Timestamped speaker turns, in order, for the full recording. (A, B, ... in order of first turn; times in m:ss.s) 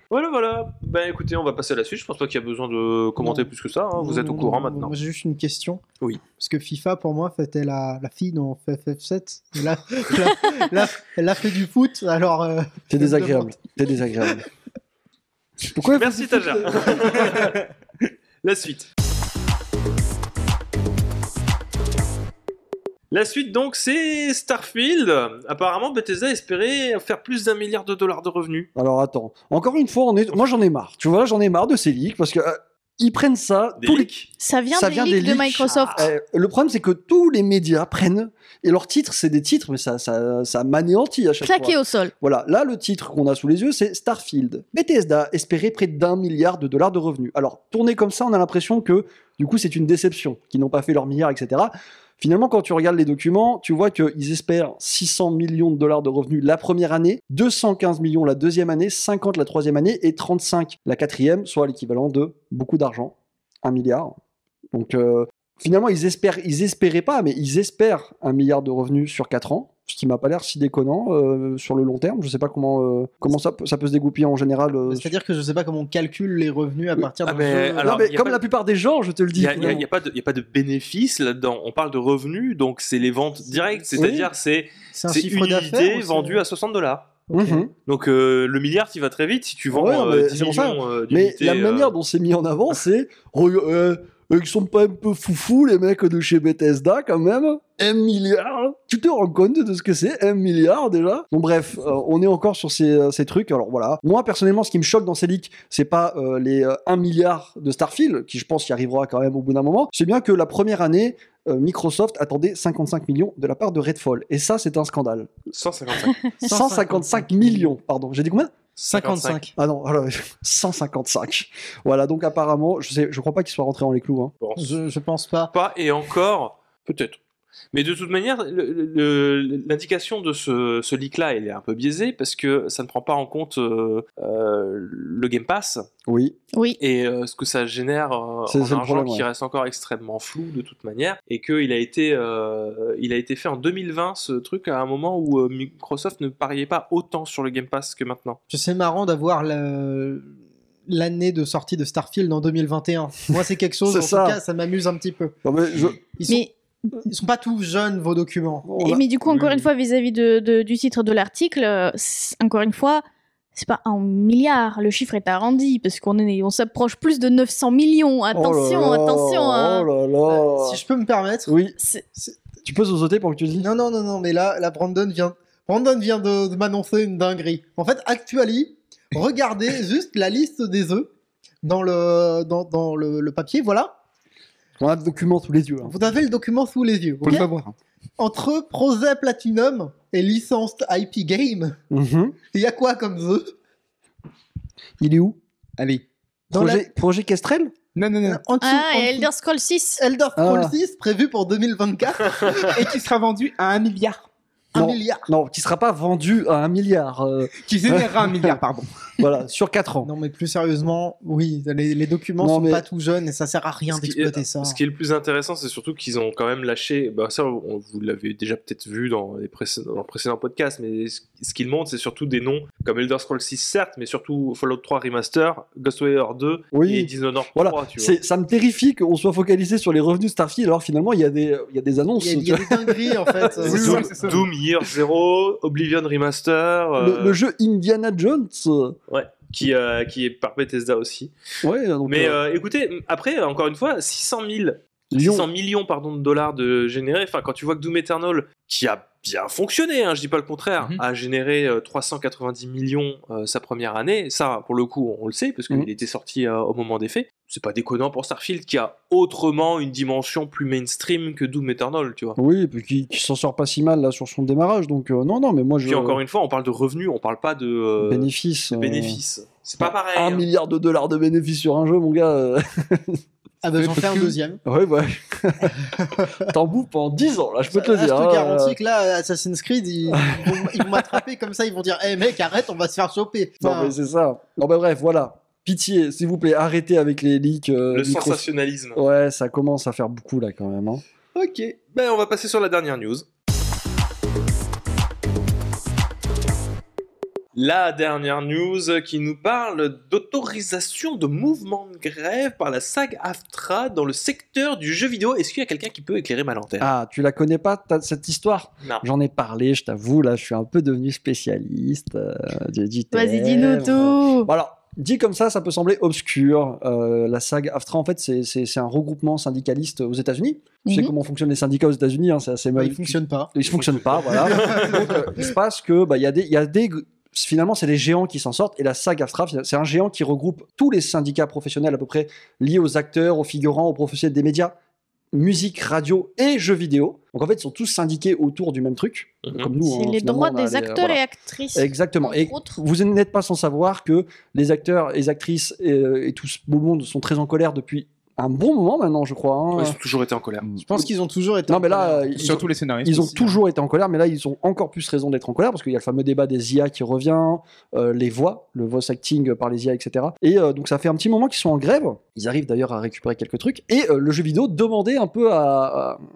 0:00.1-0:05.0 A
0:03.2-0:05.8 B
0:06.4-0:13.5 B
0:12.9-0:14.4 C
0:15.6-0:17.5 C
0:15.8-0:17.7 A
0:18.4-0:18.9 A
0:23.1-0:28.7 A
0:28.7-0:34.1 C
0:33.8-0:34.3 A
0:34.4-0:36.1 D
0:34.7-1:04.1 C
0:41.4-0:42.1 D
1:04.7-1:15.1 C
1:14.9-1:18.0 B
1:17.2-1:18.4 A
1:17.8-1:19.8 C
1:19.3-1:27.3 A
1:23.9-1:24.3 C
1:24.9-1:26.4 B
1:27.3-1:27.6 B
1:27.3-1:27.7 C
1:27.8-1:31.9 A
1:29.7-1:55.4 C
1:55.5-1:56.3 A
1:56.4-1:57.8 B
1:56.4-1:58.6 C
1:58.8-1:59.4 A
1:58.8-1:59.5 B
1:59.6-2:04.3 C
2:04.4-2:04.8 A
2:04.6-2:05.5 B
2:05.5-2:07.2 A
2:07.7-2:15.9 A
2:16.1-2:16.4 C
2:16.5-2:16.8 D
2:16.8-2:28.4 A
2:18.5-2:19.2 C
2:28.5-2:30.3 B
2:30.9-2:35.3 B
2:33.9-2:34.4 C
2:35.4-2:36.0 C
2:36.0-2:38.7 B
2:38.6-2:39.0 C
2:38.8-2:43.0 D
2:39.3-2:39.6 E
2:43.5-2:49.9 D
2:48.3-2:50.8 C
2:50.2-2:51.5 B
2:51.5-2:51.8 C
2:51.8-2:52.0 D
2:52.2-2:52.4 B
2:52.6-2:53.7 C
2:53.6-3:01.1 B
3:01.6-3:04.0 B
3:04.8-3:05.9 C
3:05.8-3:07.5 B
3:07.2-3:07.7 E
3:08.2-3:11.8 B
3:11.9-3:12.4 C
3:12.4-3:13.6 B
3:15.0-3:15.4 C
3:15.8-3:16.0 E
3:16.5-3:16.9 B
3:16.5-3:17.7 C
3:17.9-3:18.4 E
3:18.3-3:19.3 B
3:18.6-3:20.0 D
3:20.0-3:22.9 B
3:20.4-3:20.7 C
3:22.6-3:24.3 E
3:24.7-3:25.3 B
3:24.8-3:28.6 C
3:27.6-3:29.1 E
3:29.2-3:30.1 C
3:30.0-3:34.8 B
3:32.4-3:32.8 C
3:33.9-3:48.2 A
3:46.7-3:54.4 C
3:52.2-3:54.1 B
3:53.6-3:54.4 E
3:53.7-3:57.4 A
3:57.0-3:59.0 C
3:59.1-4:01.3 A
4:01.6-4:02.4 C
4:02.0-4:22.4 A
4:05.1-4:05.5 C
4:22.4-4:26.2 C
4:25.8-4:30.4 A
4:28.0-4:29.2 C
4:29.8-4:33.2 C
4:33.6-4:34.6 B
4:33.8-4:34.4 E
4:34.6-4:35.9 C
4:36.0-4:36.5 B
4:36.4-4:38.8 C
4:37.7-4:43.9 B
4:40.1-4:41.1 C
4:43.6-4:51.0 C
4:47.9-4:49.0 A
4:51.3-4:53.2 A
4:57.5-5:06.9 A
5:06.8-5:34.8 C
5:13.1-5:14.5 D
5:20.8-5:21.1 D
5:22.7-5:23.5 B
5:24.2-5:25.4 B
5:35.3-5:41.2 C
5:39.4-5:39.7 A
5:39.8-5:42.8 D
5:41.7-5:50.0 C
5:49.7-5:50.7 A
5:50.8-5:52.6 B
5:51.7-6:06.2 C
5:52.3-5:53.6 E